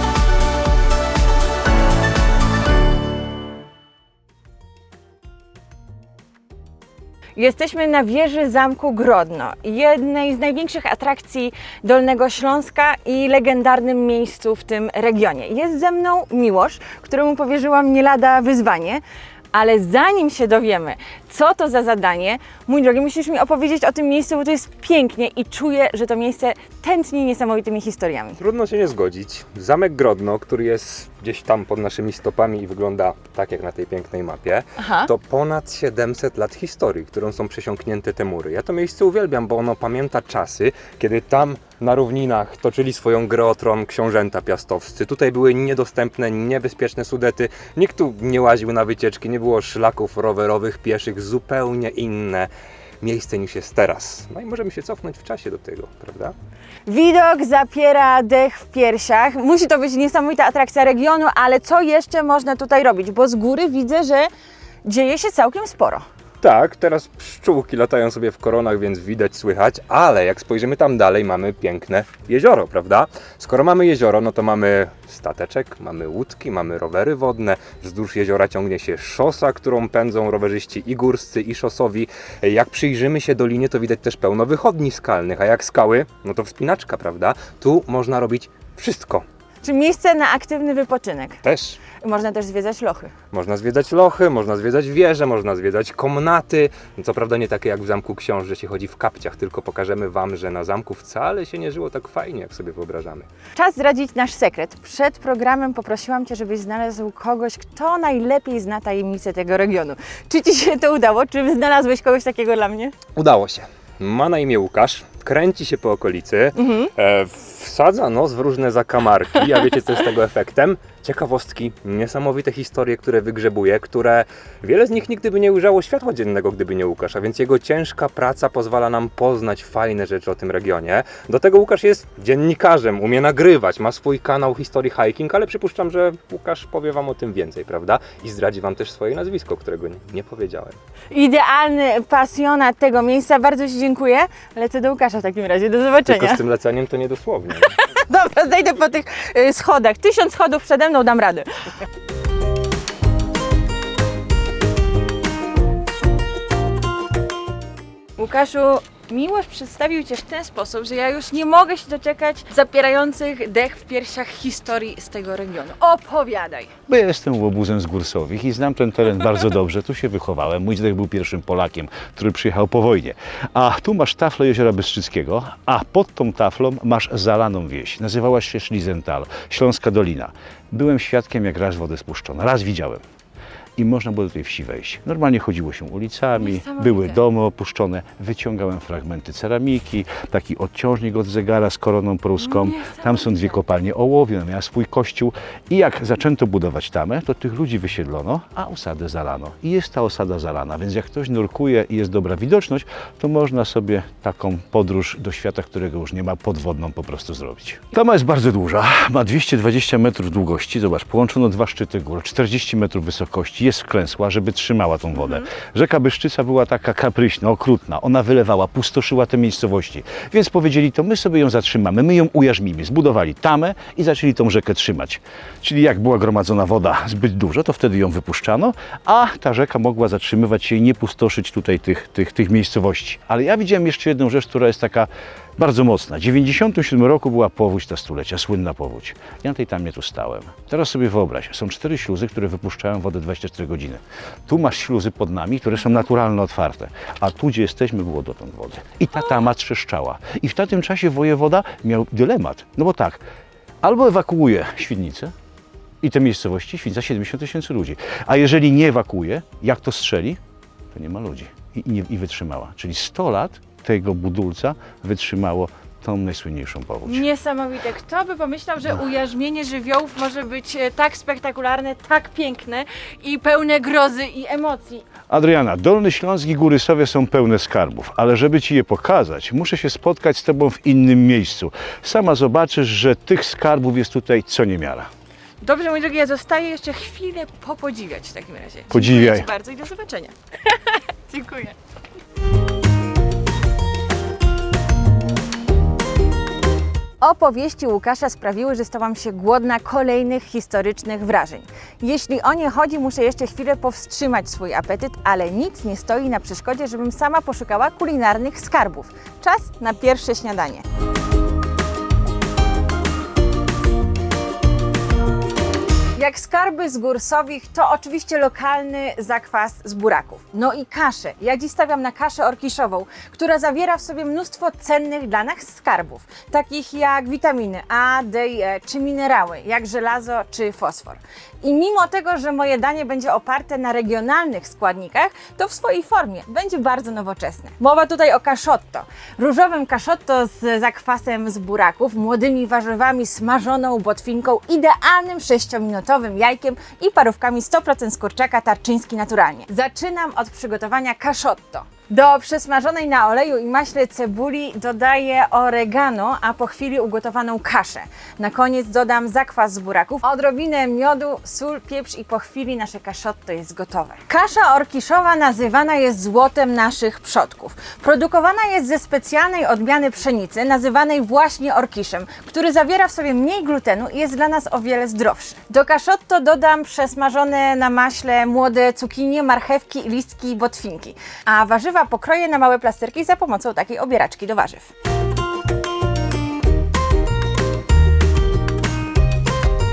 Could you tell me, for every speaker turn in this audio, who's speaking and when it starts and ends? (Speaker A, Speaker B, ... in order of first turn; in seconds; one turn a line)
Speaker A: 7.4-19.0
Speaker A: 19.5-28.4
Speaker B: 28.4-52.5
Speaker A: 34.8-35.1
Speaker B: 53.0-56.4
Speaker A: 56.9-64.3
Speaker A: 64.8-66.0
Speaker B: 66.4-89.2
Speaker A: 89.6-91.4
Speaker B: 91.4-91.8
Speaker A: 91.9-93.1
Speaker B: 93.3-103.3
Speaker A: 103.5-112.9
Speaker B: 113.2-140.8
Speaker A: 116.6-116.9
Speaker A: 141.1-146.4
Speaker B: 146.1-147.8
Speaker A: 147.8-151.5
Speaker A: 158.2-166.7
Speaker C: 166.9-183.0
Speaker C: 183.8-253.2
Speaker A: 186.3-187.2
Speaker A: 192.4-193.6
Speaker A: 215.2-215.5
Speaker C: 253.8-255.3
Speaker C: 256.0-260.4
Speaker C: 260.9-267.3
Speaker A: 267.1-275.1
Speaker C: 275.3-285.1
Speaker A: 285.6-291.8
Speaker C: 288.9-289.5
Speaker A: 297.2-310.8
Speaker A: 316.2-384.9